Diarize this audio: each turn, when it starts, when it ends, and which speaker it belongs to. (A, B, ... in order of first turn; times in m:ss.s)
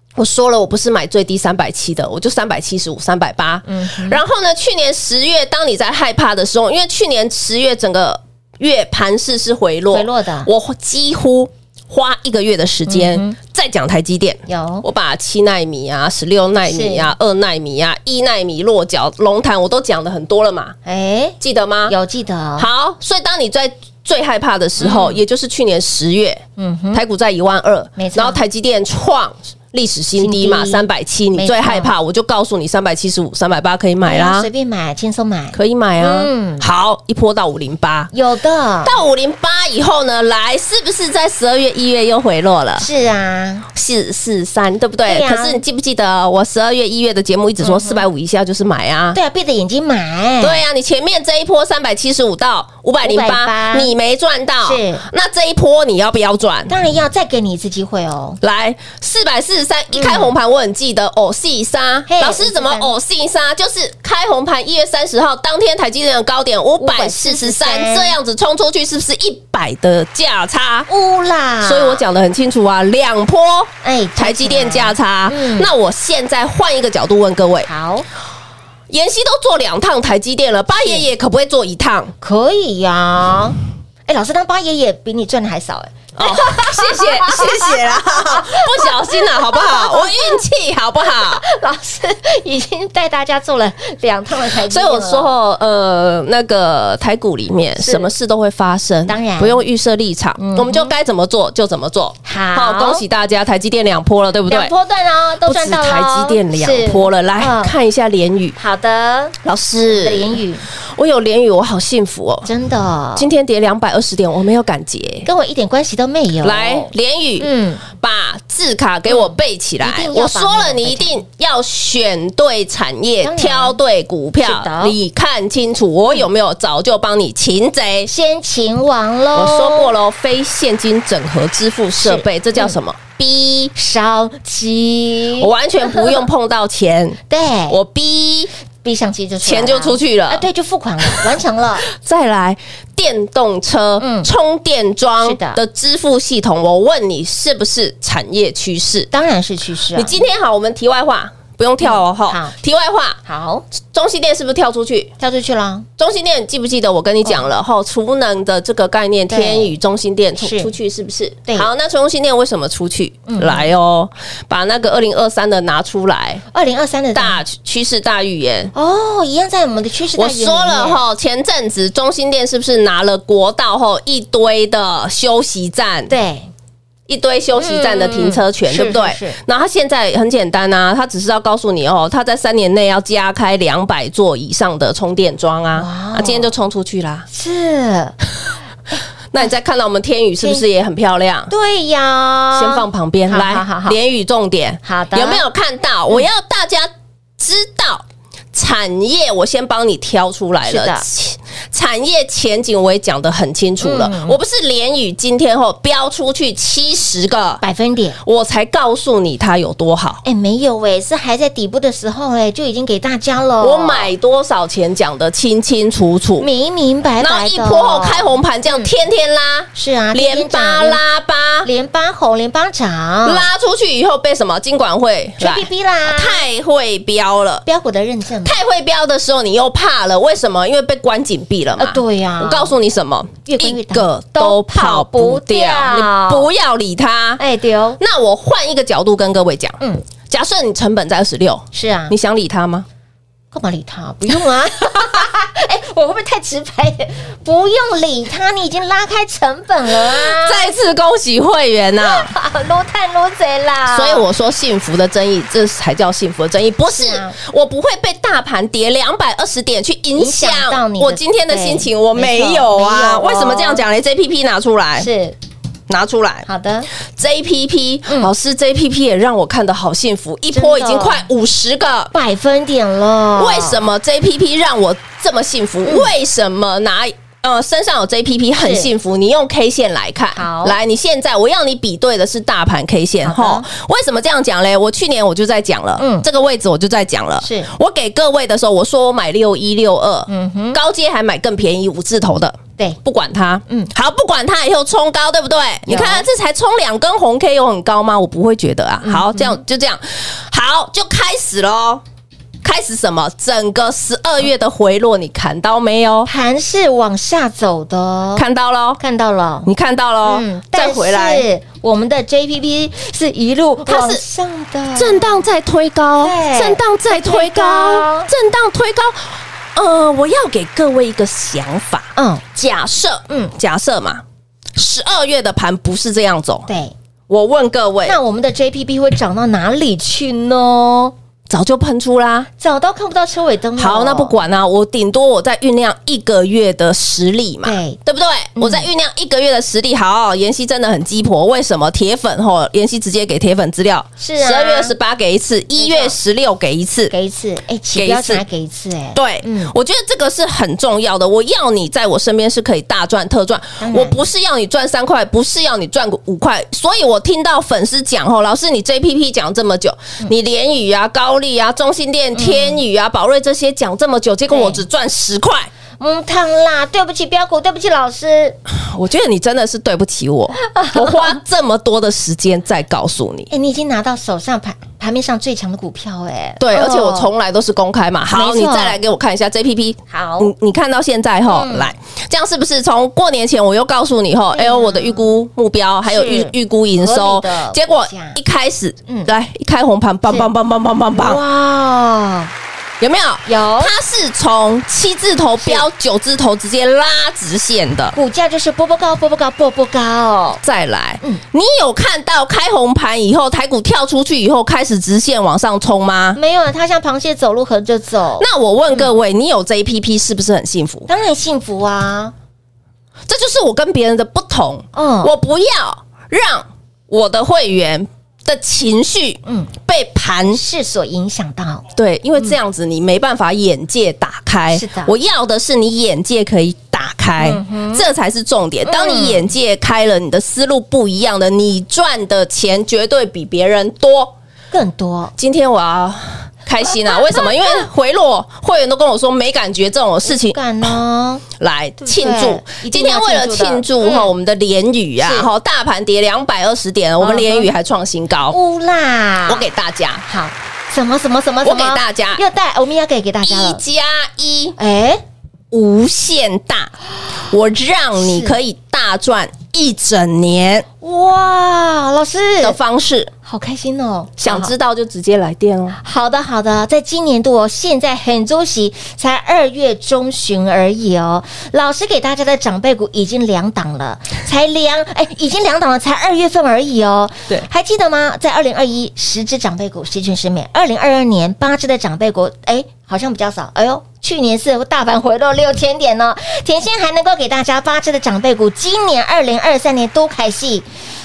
0:00.2-0:20.8 A
0:03.6-0:04.2 B
0:09.9-0:10.5 B
0:12.9-0:13.3 B
0:14.5-0:14.8 B
0:16.6-0:17.1 B
0:20.8-0:21.4 B
0:21.4-0:21.9 A
0:21.9-0:22.7 B
0:22.6-0:34.5 A
0:24.8-0:25.2 B
0:26.6-0:27.0 B
0:28.0-0:28.4 B
0:30.2-0:31.9 B
0:34.0-0:36.7 B
0:35.5-0:38.1 A
0:38.1-0:38.9 B
0:38.8-0:42.8 A
0:42.8-0:43.6 B
0:43.8-0:49.2 A
0:45.1-0:45.6 B
0:47.6-0:48.1 B
0:49.1-0:50.6 B
0:50.4-0:56.7 A
0:53.0-0:53.9 B
0:54.6-0:55.0 B
0:56.7-0:58.4 B
0:58.4-1:10.9 A
0:59.9-1:00.3 B
1:02.1-1:02.9 B
1:06.8-1:08.1 B
1:10.9-1:12.0 B
1:11.6-1:17.7 A
1:13.8-1:15.7 B
1:17.7-1:18.1 B
1:18.9-1:22.1 A
1:20.7-1:21.0 B
1:22.2-1:30.3 B
1:26.2-1:31.4 A
1:31.1-1:35.3 B
1:34.7-1:44.7 A
1:37.8-1:38.1 B
1:39.1-1:39.6 B
1:40.4-1:40.9 B
1:42.2-1:43.0 B
1:44.5-1:47.7 B
1:45.4-1:48.6 A
1:48.6-1:50.6 B
1:49.4-1:50.4 A
1:50.9-1:52.5 A
1:52.4-1:53.3 B
1:53.2-1:55.3 A
1:55.2-1:57.8 B
1:56.4-2:08.1 A
1:59.1-2:01.2 B
2:03.2-2:03.8 B
2:04.4-2:04.9 B
2:08.1-2:09.9 B
2:09.3-2:13.7 A
2:12.0-2:12.8 B
2:13.8-2:16.2 B
2:15.4-2:17.2 A
2:17.3-2:17.8 B
2:17.7-2:18.5 A
2:18.8-2:21.8 B
2:19.4-2:20.5 A
2:21.9-2:29.1 A
2:24.0-2:24.3 B
2:25.2-2:25.6 B
2:29.1-2:30.2 B
2:29.9-2:33.2 A
2:31.8-2:32.5 B
2:33.2-2:33.6 B
2:33.8-2:35.1 A
2:35.2-2:35.9 B
2:36.0-2:46.4 A
2:39.3-2:39.7 B
2:40.4-2:40.7 B
2:43.3-2:43.7 B
2:46.5-2:47.4 B
2:47.1-2:48.7 A
2:48.7-2:51.0 B
2:50.2-2:56.1 A
2:56.1-2:56.5 B
2:57.1-3:07.3 A
2:57.6-2:59.4 B
3:05.8-3:06.5 B
3:07.3-3:08.1 B
3:09.3-3:11.5 A
3:11.5-3:14.0 B
3:12.5-3:27.6 A
3:14.8-3:15.4 B
3:20.6-3:21.0 B
3:23.8-3:24.4 B
3:27.6-3:28.2 B
3:28.2-3:30.2 A
3:30.2-3:34.1 B
3:33.6-3:36.5 A
3:36.4-3:38.9 B
3:37.2-3:41.7 A
3:39.7-3:41.0 B
3:41.6-3:43.4 B
3:43.2-3:47.6 A
3:45.4-3:46.4 B
3:47.7-3:48.6 B
3:48.4-3:57.4 A
3:51.8-3:52.7 B
3:53.4-3:56.5 B
3:57.4-3:58.0 B
3:58.0-4:02.8 A
4:01.7-4:02.1 B
4:03.5-4:10.7 B
4:10.0-4:12.3 A
4:12.0-4:14.2 B
4:13.9-4:25.1 A
4:16.9-4:17.3 B
4:20.2-4:23.8 B
4:25.0-4:25.4 B
4:25.9-4:26.5 A
4:26.4-4:26.9 B
4:27.2-4:32.1 A
4:30.5-4:31.2 B
4:32.1-4:33.8 B
4:33.4-5:02.0 A
4:35.8-4:36.1 B
4:38.6-4:38.9 B
4:40.3-4:40.8 B
4:43.2-4:43.7 B
4:46.0-4:46.2 B
4:47.4-4:47.7 B
4:50.3-4:50.8 B
4:55.9-4:56.2 B
4:59.0-4:59.6 B
5:02.6-5:06.3 A
5:06.2-5:08.4 B
5:08.4-5:09.0 A
5:09.0-5:09.7 B
5:09.7-5:11.5 A
5:10.2-5:15.5 B
5:13.9-5:14.2 A
5:15.0-5:24.2 A
5:16.2-5:18.3 B
5:22.2-5:22.5 B
5:24.7-5:26.7 A
5:26.7-5:26.9 B
5:27.3-5:28.2 A
5:28.0-5:31.1 B
5:31.5-5:32.5 A
5:32.6-5:34.3 B
5:33.8-5:47.1 A
5:37.6-5:38.0 B
5:38.6-5:38.9 B
5:44.2-5:44.9 B
5:45.8-5:46.2 B
5:47.1-5:49.7 B
5:47.9-5:48.4 A
5:49.1-6:05.7 A
5:53.8-5:54.2 B
6:02.3-6:02.8 B
6:04.5-6:04.8 B
6:06.0-6:08.6 B
6:08.7-6:13.5 A
6:10.6-6:11.4 B
6:13.5-6:17.3 B
6:16.6-6:31.4 A
6:18.3-6:19.0 B
6:20.1-6:20.5 B
6:21.5-6:21.9 B
6:24.5-6:25.3 B
6:26.1-6:28.4 B
6:31.1-6:32.5 B
6:33.0-6:38.2 A
6:33.4-6:33.9 B
6:35.6-6:35.9 B
6:38.1-6:40.6 B
6:40.6-6:46.4 A
6:46.3-6:49.1 B
6:48.4-6:51.1 A
6:51.1-6:52.3 B
6:53.3-7:00.6 A
6:54.9-6:55.3 B
6:59.4-6:59.7 B
7:00.5-7:01.8 B
7:02.0-7:14.3 A
7:04.7-7:05.1 B
7:07.4-7:08.1 B
7:08.8-7:09.5 B
7:14.7-7:15.3 B
7:15.4-7:20.9 A
7:16.9-7:17.9 B
7:20.2-7:21.4 B
7:21.6-7:28.6 A
7:22.0-7:24.3 B
7:25.2-7:25.5 B
7:27.2-7:27.7 B
7:28.5-7:29.6 B
7:29.5-7:30.2 A
7:30.2-7:33.8 B
7:31.6-7:32.4 A
7:33.4-7:34.8 A
7:34.8-7:35.2 B
7:35.7-7:36.9 A
7:37.5-7:40.9 A
7:38.2-7:38.6 B
7:41.0-7:42.8 B
7:42.6-7:43.3 A
7:43.4-7:44.7 B
7:44.4-7:46.0 A
7:46.0-8:10.9 B